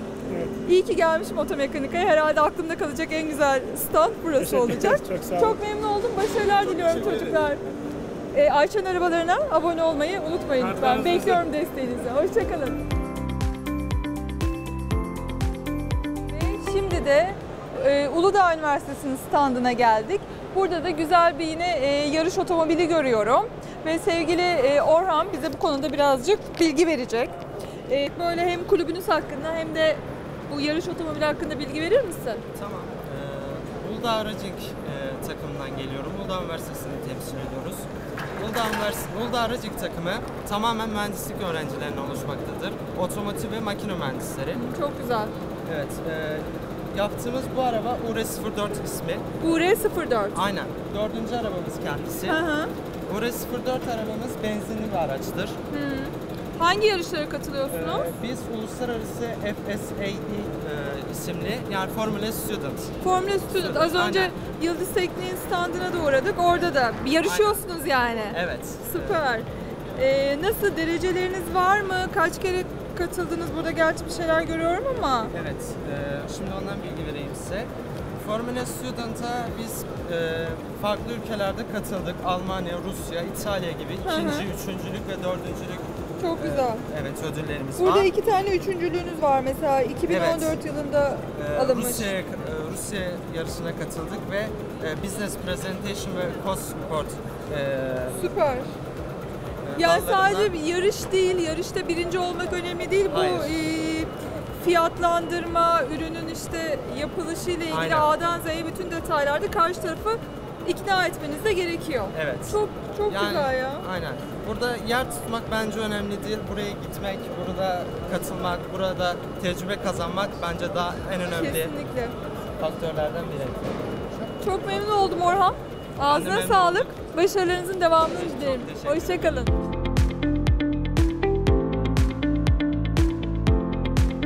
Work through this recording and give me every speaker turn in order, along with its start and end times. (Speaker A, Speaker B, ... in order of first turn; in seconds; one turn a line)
Speaker A: 0.3-0.6
Speaker B: 0.6-7.6
Speaker A: 4.4-5.6
Speaker B: 8.3-12.8
Speaker A: 10.6-11.5
Speaker B: 16.3-27.3
Speaker B: 27.9-32.4
Speaker C: 32.5-44.6
Speaker B: 44.5-45.3
Speaker C: 45.7-49.3
Speaker B: 49.4-50.4
Speaker C: 50.3-52.4
Speaker B: 52.3-52.7
Speaker C: 53.1-55.6
Speaker B: 55.7-58.1
Speaker C: 57.7-62.9
Speaker B: 63.0-75.3
Speaker C: 63.5-64.4
Speaker C: 67.2-67.6
Speaker C: 68.3-69.2
Speaker C: 75.3-88.1
Speaker B: 84.0-84.5
Speaker B: 86.2-86.8
Speaker B: 87.8-92.2
Speaker C: 90.1-90.6
Speaker C: 91.3-98.2
Speaker B: 98.1-98.7
Speaker C: 99.7-100.5
Speaker B: 99.8-113.9
Speaker C: 103.1-103.6
Speaker C: 107.7-108.1
Speaker C: 112.1-121.8
Speaker B: 121.3-122.2
Speaker C: 122.6-123.8
Speaker B: 124.4-129.5
Speaker C: 126.0-127.0
Speaker C: 128.0-129.5